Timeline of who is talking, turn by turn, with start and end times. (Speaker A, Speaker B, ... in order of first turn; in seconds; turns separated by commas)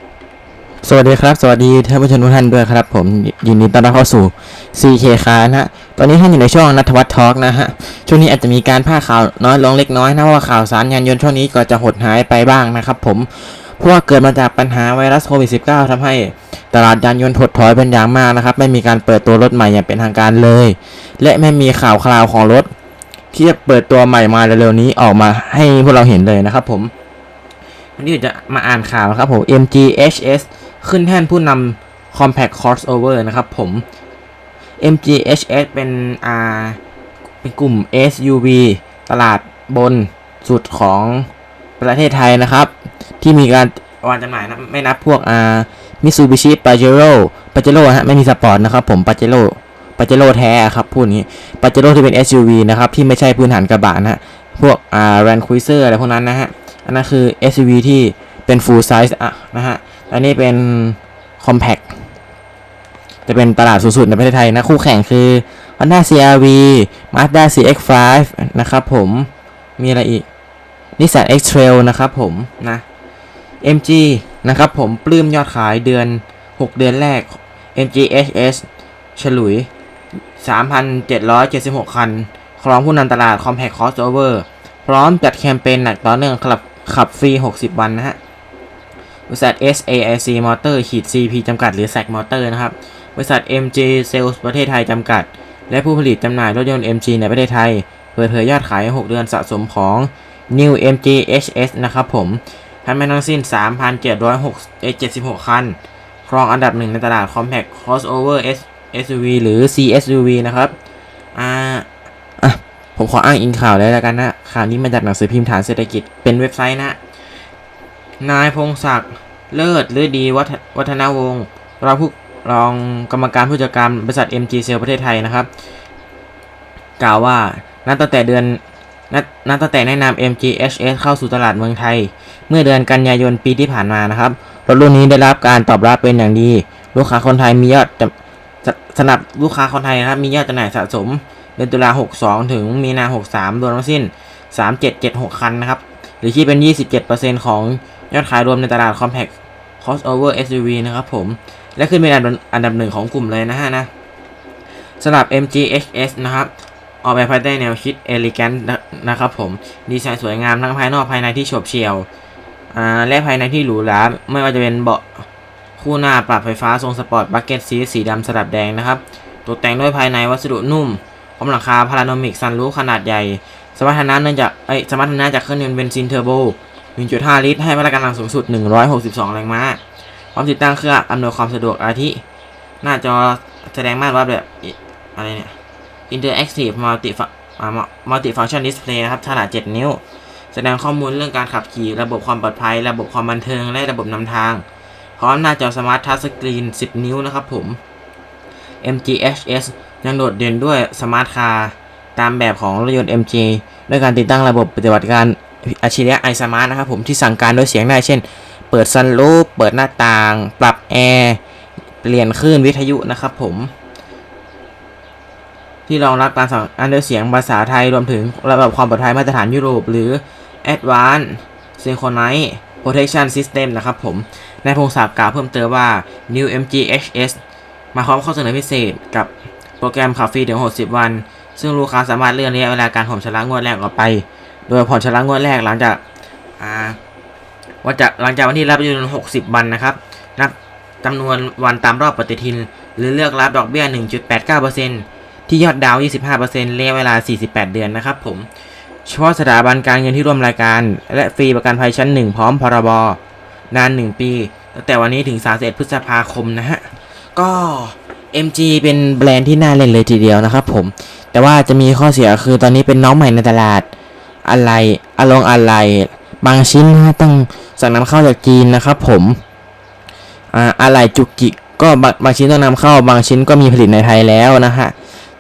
Speaker A: 0.8-22.7, Speaker A: 23.3-26.9, Speaker A: 28.0-33.8, Speaker A: 34.8-36.8, Speaker A: 37.4-41.3, Speaker A: 41.8-61.9, Speaker A: 63.3-70.3, Speaker A: 71.0-72.8, Speaker A: 73.6-79.7, Speaker A: 80.4-88.2, Speaker A: 89.3-110.7, Speaker A: 111.3-111.9, Speaker A: 112.4-117.0, Speaker A: 118.2-125.5, Speaker A: 127.0-153.9, Speaker A: 155.0-156.5, Speaker A: 157.0-162.1, Speaker A: 162.7-165.3, Speaker A: 165.8-179.8, Speaker A: 180.3-182.2, Speaker A: 182.8-185.6, Speaker A: 186.1-190.0, Speaker A: 190.5-194.6, Speaker A: 195.2-197.8, Speaker A: 198.8-211.4, Speaker A: 212.0-213.7, Speaker A: 215.9-227.4, Speaker A: 227.9-236.0, Speaker A: 236.6-237.0, Speaker A: 237.8-248.5, Speaker A: 249.1-253.2, Speaker A: 253.7-263.9, Speaker A: 264.5-269.4, Speaker A: 270.5-274.9